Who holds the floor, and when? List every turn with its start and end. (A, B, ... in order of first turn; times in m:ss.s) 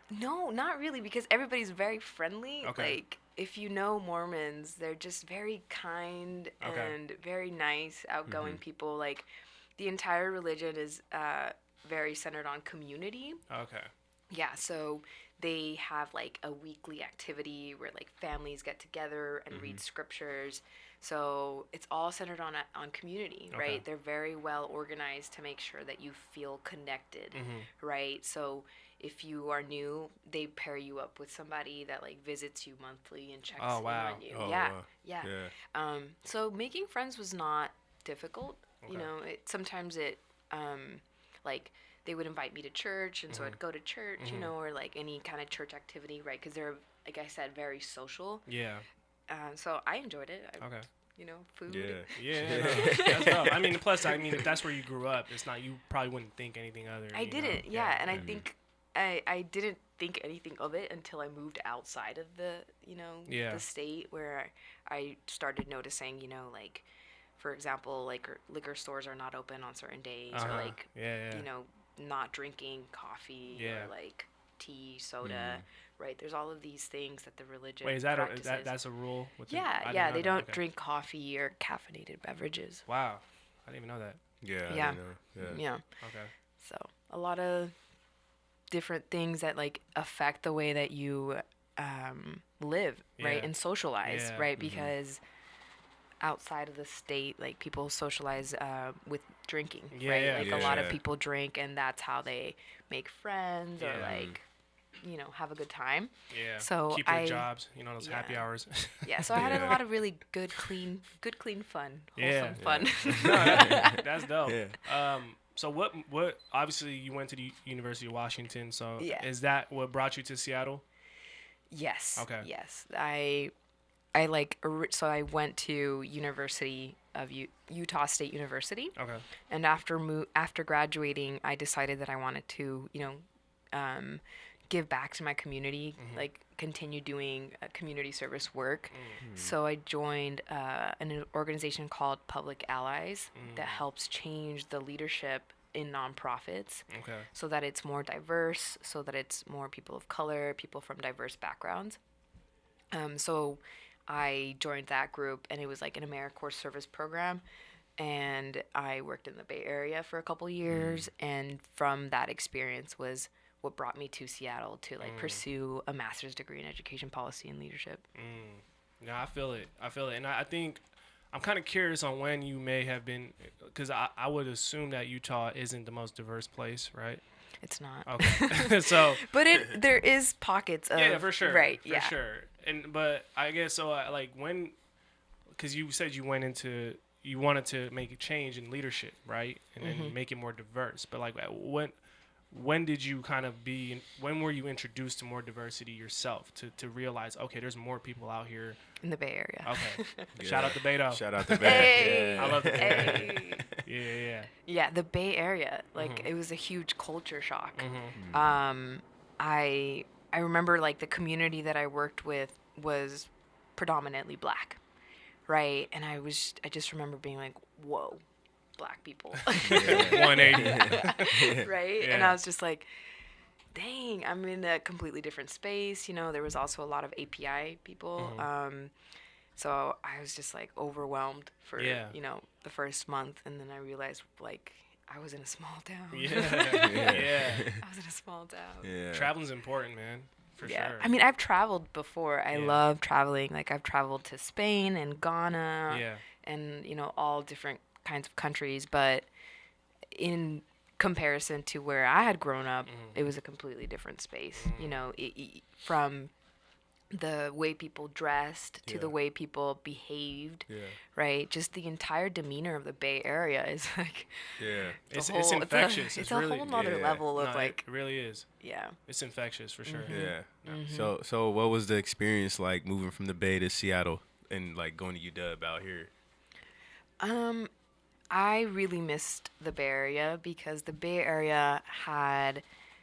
0:00.1-0:09.3 A
0:02.6-0:03.0 B
0:06.6-0:07.0 B
0:08.3-0:08.6 C
0:09.8-0:13.4 A
0:13.5-0:13.9 B
0:14.3-0:48.5 A
0:19.5-0:19.8 C
0:23.5-0:23.8 B
0:27.3-0:27.7 B
0:33.6-0:34.3 B
0:34.3-0:35.5 C
0:43.3-0:43.6 B
0:44.2-0:44.5 B
0:48.5-0:48.8 B
0:49.3-0:53.5 A
0:50.6-0:50.9 B
0:51.7-0:54.3 C
0:52.2-0:58.2 B
0:57.1-1:06.8 A
0:58.1-0:58.4 C
1:03.3-1:03.6 B
1:07.4-1:18.8 A
1:10.3-1:11.5 B
1:13.5-1:13.9 B
1:15.2-1:15.6 C
1:17.8-1:20.6 B
1:19.5-1:22.8 A
1:22.9-1:24.2 B
1:24.4-1:25.6 C
1:24.7-1:25.9 A
1:26.0-1:26.3 B
1:26.6-1:27.7 A
1:28.7-1:35.2 A
1:33.2-1:33.5 B
1:34.0-1:34.5 B
1:34.6-1:34.9 C
1:36.2-1:44.4 A
1:39.9-1:40.9 B
1:40.4-1:41.0 C
1:43.8-1:44.1 B
1:44.0-1:44.4 C
1:45.0-1:47.5 A
1:46.3-1:49.8 B
1:48.0-1:48.5 A
1:49.0-1:54.0 A
1:49.3-1:49.8 C
1:52.2-2:00.8 B
1:52.6-1:54.8 C
1:59.0-1:59.3 A
2:01.7-2:03.5 A
2:02.2-2:02.5 B
2:04.2-2:09.0 A
2:09.0-2:09.2 B
2:09.5-2:32.0 A
2:16.0-2:16.2 B
2:18.9-2:19.2 B
2:19.2-2:19.6 C
2:23.4-2:23.8 B
2:26.9-2:27.3 B
2:32.9-2:37.4 A
2:38.0-2:48.0 A
2:40.7-2:41.1 C
2:45.0-2:45.4 B
2:48.2-2:57.2 B
2:57.6-3:02.2 A
2:58.0-2:59.3 B
3:00.9-3:04.8 B
3:05.6-3:12.0 B
3:09.8-3:10.2 A
3:12.5-3:18.8 B
3:19.0-3:20.3 A
3:19.6-3:24.5 B
3:20.4-3:23.8 C
3:21.6-3:23.7 A
3:24.6-3:34.8 A
3:26.0-3:26.3 B
3:27.8-3:28.2 B
3:28.2-3:28.5 C
3:35.5-3:38.2 A
3:38.8-3:42.9 A
3:39.6-3:42.4 B
3:39.7-3:41.6 C
3:43.7-3:48.9 A
3:48.2-3:48.5 B
3:49.6-3:58.9 A
3:51.8-3:52.2 B
3:56.1-3:57.8 B
3:56.8-3:57.8 C
3:58.8-3:59.3 C
3:59.1-4:01.1 B
4:00.6-4:09.3 A
4:02.5-4:02.8 B
4:05.9-4:06.2 B
4:10.1-4:16.3 A
4:12.9-4:13.2 B
4:14.6-4:15.0 B
4:17.1-4:24.5 A
4:18.8-4:19.1 C
4:20.7-4:21.0 C
4:24.6-4:25.0 C
4:25.1-4:28.5 B
4:25.1-4:27.9 A
4:26.7-4:27.2 C
4:28.6-4:29.0 A
4:29.0-4:30.8 B
4:29.8-4:31.1 A
4:30.1-4:36.1 C
4:37.2-4:37.7 A
4:38.3-4:42.6 A